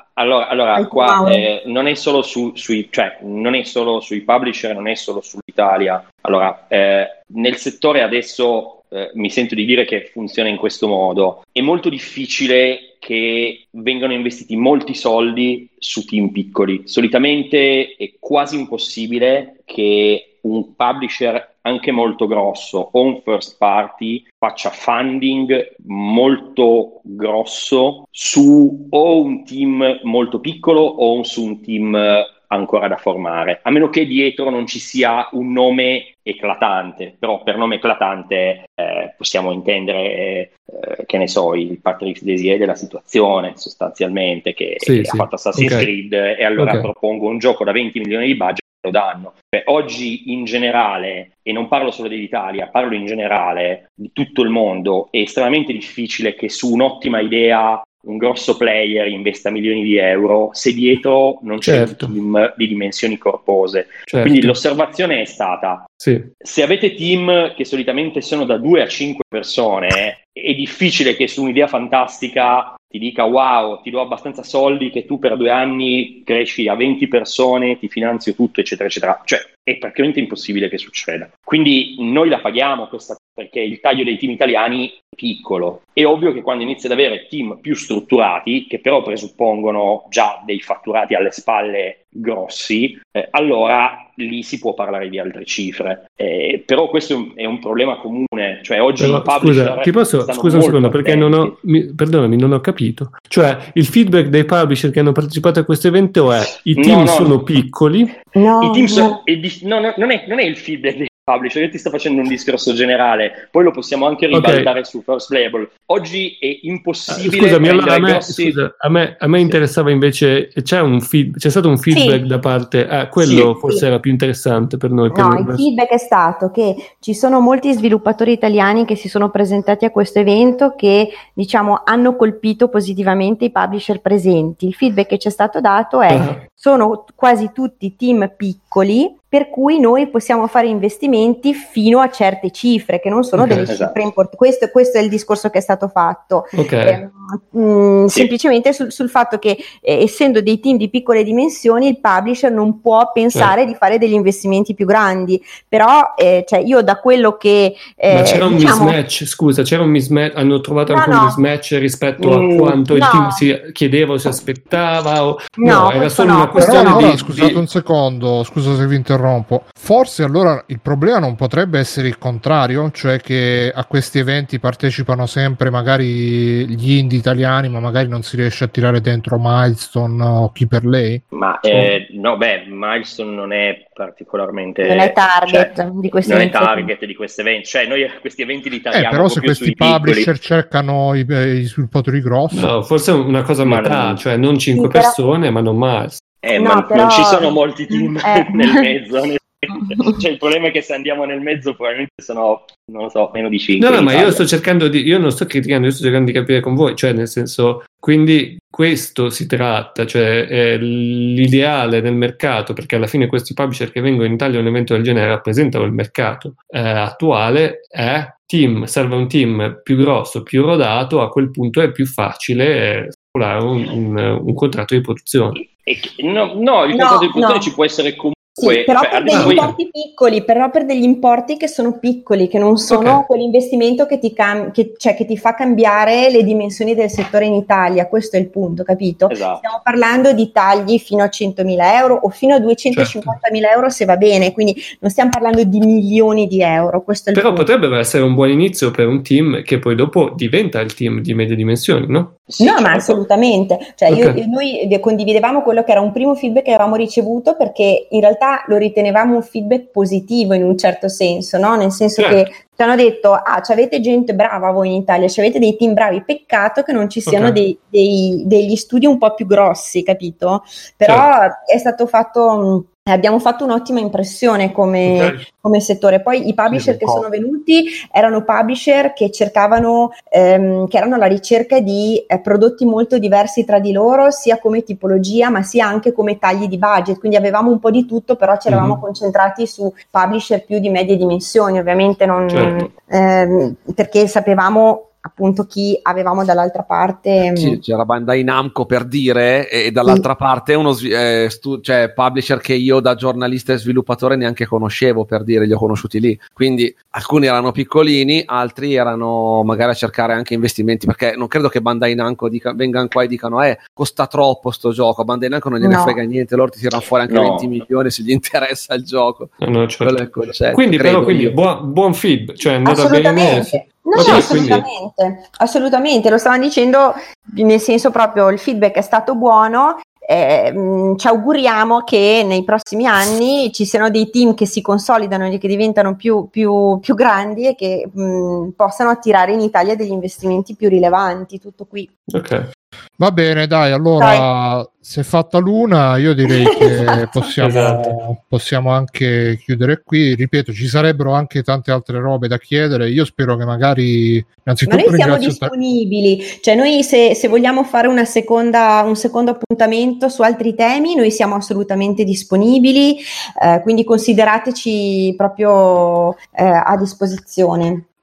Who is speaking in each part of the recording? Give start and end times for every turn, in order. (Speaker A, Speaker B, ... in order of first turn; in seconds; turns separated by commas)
Speaker A: 0.1-101.5, Speaker B: 0.7-1.4, Speaker C: 44.8-45.9, Speaker C: 46.6-46.9, Speaker C: 61.6-62.1, Speaker C: 64.1-64.6, Speaker C: 66.0-66.3, Speaker C: 99.0-108.1, Speaker A: 106.7-107.4, Speaker B: 108.3-109.2, Speaker A: 108.6-118.6, Speaker C: 114.3-114.7, Speaker C: 117.1-125.6, Speaker B: 121.9-122.2, Speaker A: 123.2-123.5, Speaker B: 125.1-159.0, Speaker C: 136.1-136.4, Speaker C: 143.4-143.7, Speaker A: 143.6-144.0, Speaker C: 146.5-147.0, Speaker C: 158.1-167.6, Speaker B: 160.9-161.4, Speaker B: 162.2-163.4, Speaker B: 165.6-167.2, Speaker D: 166.6-181.2, Speaker A: 181.3-185.7, Speaker B: 184.8-186.9, Speaker A: 186.2-190.3, Speaker D: 188.9-192.7, Speaker C: 192.5-196.2, Speaker A: 193.6-194.2, Speaker B: 194.7-195.2, Speaker A: 196.4-204.4, Speaker B: 196.6-198.8, Speaker B: 199.8-200.1, Speaker C: 203.8-225.6, Speaker A: 225.5-229.7, Speaker B: 226.9-227.7, Speaker B: 228.6-247.7, Speaker C: 229.3-229.7, Speaker C: 232.9-233.2, Speaker A: 239.3-239.7, Speaker C: 242.9-243.3, Speaker C: 247.3-252.3, Speaker A: 252.5-253.2, Speaker B: 252.6-297.8, Speaker C: 254.1-254.4, Speaker C: 262.2-262.4, Speaker C: 267.2-267.6, Speaker C: 275.0-275.4, Speaker E: 276.7-277.2, Speaker C: 288.7-289.0, Speaker C: 292.5-292.9, Speaker E: 297.5-319.5, Speaker B: 315.8-316.2, Speaker A: 317.3-317.7, Speaker C: 319.6-320.2, Speaker E: 320.0-321.6, Speaker C: 320.7-324.9, Speaker B: 322.8-342.1, Speaker A: 324.2-324.4, Speaker C: 342.3-342.7, Speaker D: 343.2-355.7, Speaker B: 344.2-344.5, Speaker B: 346.7-347.2, Speaker C: 347.6-348.1, Speaker B: 354.9-368.0